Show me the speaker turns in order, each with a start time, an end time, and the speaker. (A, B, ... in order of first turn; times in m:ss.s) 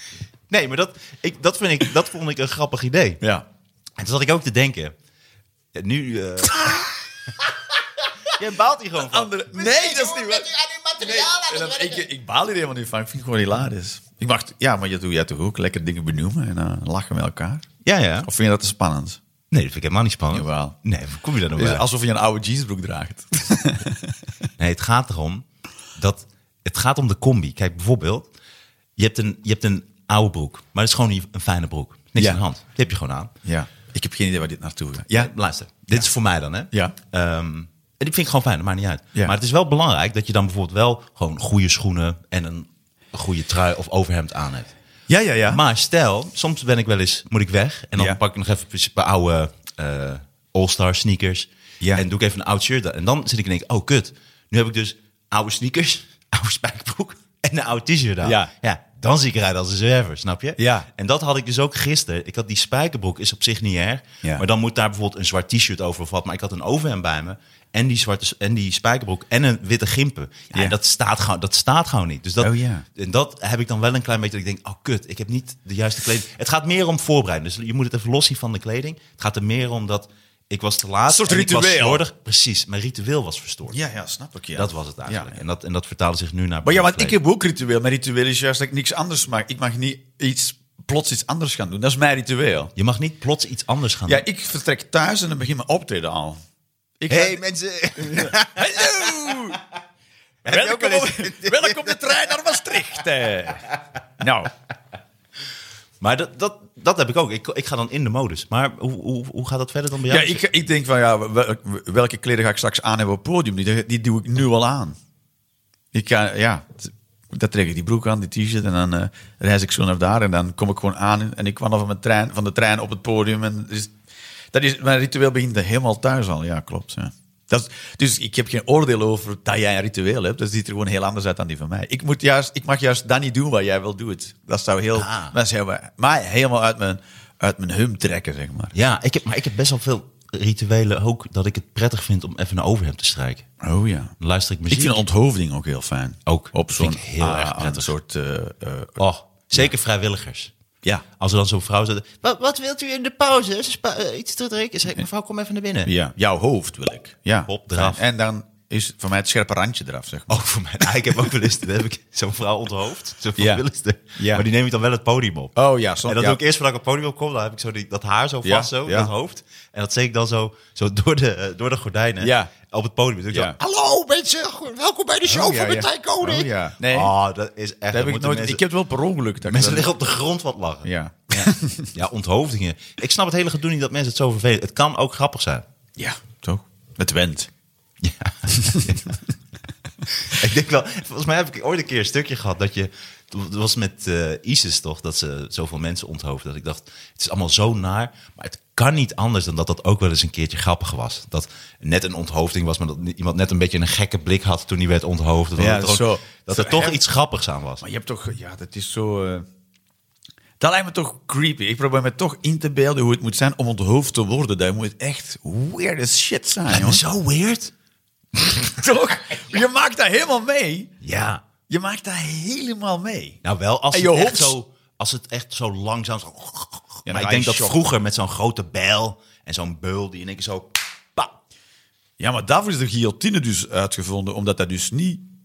0:00.5-0:03.2 A
0:04.0-0:04.9 A
0:05.7-0:06.8 A
0:06.5-0:06.9 B
0:08.3-0:12.0 A
0:09.0-0:17.7 B
0:17.8-0:18.3 A
0:18.2-0:19.2 B
0:19.5-0:21.8 A
0:20.3-0:20.8 B
0:21.5-0:24.2 B
0:24.6-0:25.4 A
0:26.0-0:28.3 A
0:29.0-0:33.3 A
0:32.2-0:32.4 B
0:33.4-0:35.3 B
0:35.1-0:44.7 A
0:45.1-0:45.6 B
0:45.5-1:23.8 A
0:58.2-0:58.5 B
1:00.6-1:00.9 B
1:12.4-1:12.8 B
1:21.1-1:22.0 B
1:23.7-1:25.4 B
1:24.5-1:27.2 A
1:26.6-1:32.7 B
1:32.8-1:34.2 A
1:34.1-1:36.4 B
1:37.0-1:37.4 B
1:37.1-1:39.1 A
1:37.9-1:39.6 B
1:40.4-1:42.1 A
1:40.4-1:43.7 B
1:44.2-1:44.5 B
1:46.0-1:50.4 A
1:50.1-1:55.0 B
1:55.9-2:03.9 B
2:04.5-2:18.7 B
2:14.9-2:15.3 A
2:18.7-2:23.5 A
2:23.6-2:24.1 B
2:24.2-2:25.0 A
2:24.7-2:29.0 B
2:26.2-2:27.9 A
2:29.0-2:30.5 A
2:31.2-2:35.9 A
2:35.8-2:40.4 B
2:37.5-2:38.0 A
2:40.3-2:45.5 A
2:43.4-2:43.6 B
2:44.1-2:44.4 B
2:45.5-2:46.4 B
2:46.0-2:58.6 A
2:48.4-2:49.1 B
2:52.2-2:52.5 B
2:53.3-2:53.6 B
2:55.2-2:57.1 B
2:57.9-2:59.9 B
2:59.4-3:05.6 A
3:00.8-3:01.9 B
3:06.0-3:07.5 B
3:08.0-3:09.1 A
3:08.5-3:09.0 B
3:10.1-3:27.8 A
3:25.6-3:27.0 B
3:27.8-3:29.4 B
3:30.6-3:37.0 B
3:36.7-3:37.7 A
3:38.4-3:40.9 B
3:41.0-3:41.4 A
3:41.7-3:43.4 B
3:43.4-3:51.3 A
3:43.9-3:44.5 B
3:47.0-3:47.8 B
3:52.2-3:55.2 B